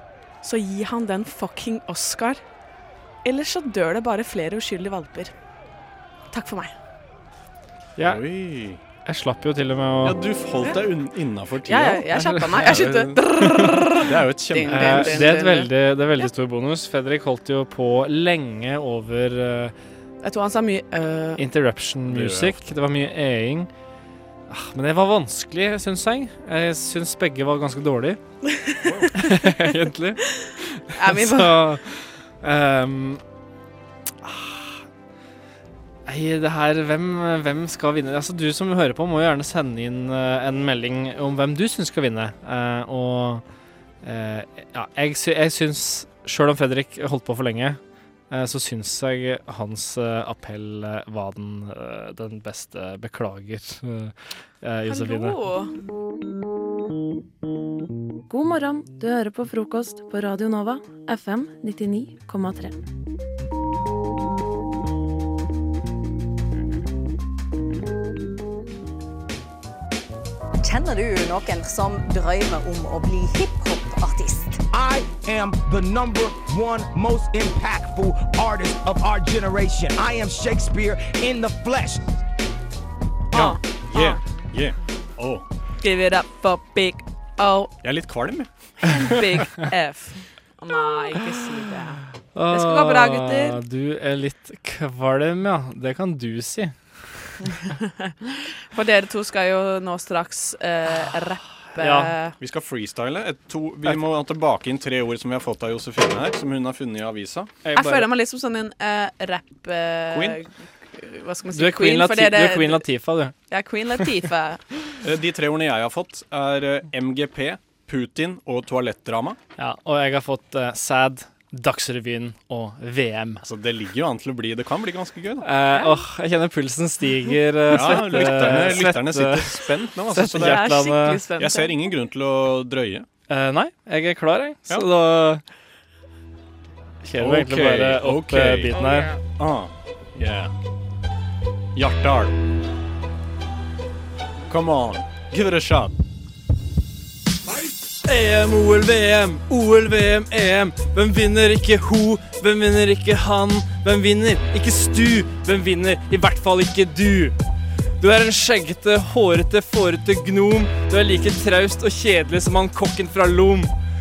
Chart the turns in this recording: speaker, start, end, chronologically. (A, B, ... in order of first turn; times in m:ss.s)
0:00.4-0:02.4 A
0:03.2-0:05.3 A
0:06.3-0:06.7 A
0:08.0-0:08.2 B
0:08.0-0:08.8 C
0:09.0-0:10.2 B
0:10.0-0:13.1 C
0:11.7-0:16.3 A
0:12.1-0:13.8 B
0:14.0-0:15.3 C
0:14.7-0:19.7 B
0:20.2-0:21.4 A
0:21.4-0:23.7 B
0:22.1-0:22.6 C
0:24.5-0:28.2 B
0:28.5-0:29.1 A
0:29.1-0:30.2 B
0:30.8-0:33.2 B
0:30.9-0:31.6 A
0:34.2-0:34.8 B
0:36.0-0:43.4 B
0:44.0-0:55.4 B
0:54.8-0:55.7 A
0:58.3-1:02.8 D
1:10.6-1:14.6 E
1:14.7-1:22.0 F
1:23.3-1:24.2 A
1:23.3-1:25.4 C
1:25.8-1:27.7 A
1:27.8-1:28.4 C
1:28.8-1:33.6 A
1:32.3-1:37.4 B
1:37.7-1:42.4 A
1:41.8-1:42.1 B
1:42.4-1:47.6 C
1:47.6-1:48.1 B
1:47.7-1:52.8 A
1:51.5-1:53.4 B
1:53.5-1:54.6 A
1:55.0-1:59.4 C
1:59.6-2:03.4 B
2:03.4-2:05.4 C
2:05.4-2:11.2 B
2:05.7-2:06.0 A
2:07.7-2:10.6 C
2:10.2-2:11.7 A
2:11.4-2:13.0 C
2:13.3-2:15.4 B
2:17.0-2:19.1 B
2:17.2-2:18.8 C
2:19.4-2:20.5 C
2:21.8-2:22.3 C
2:24.5-2:25.9 C
2:28.0-2:37.4 B
2:38.0-2:43.7 B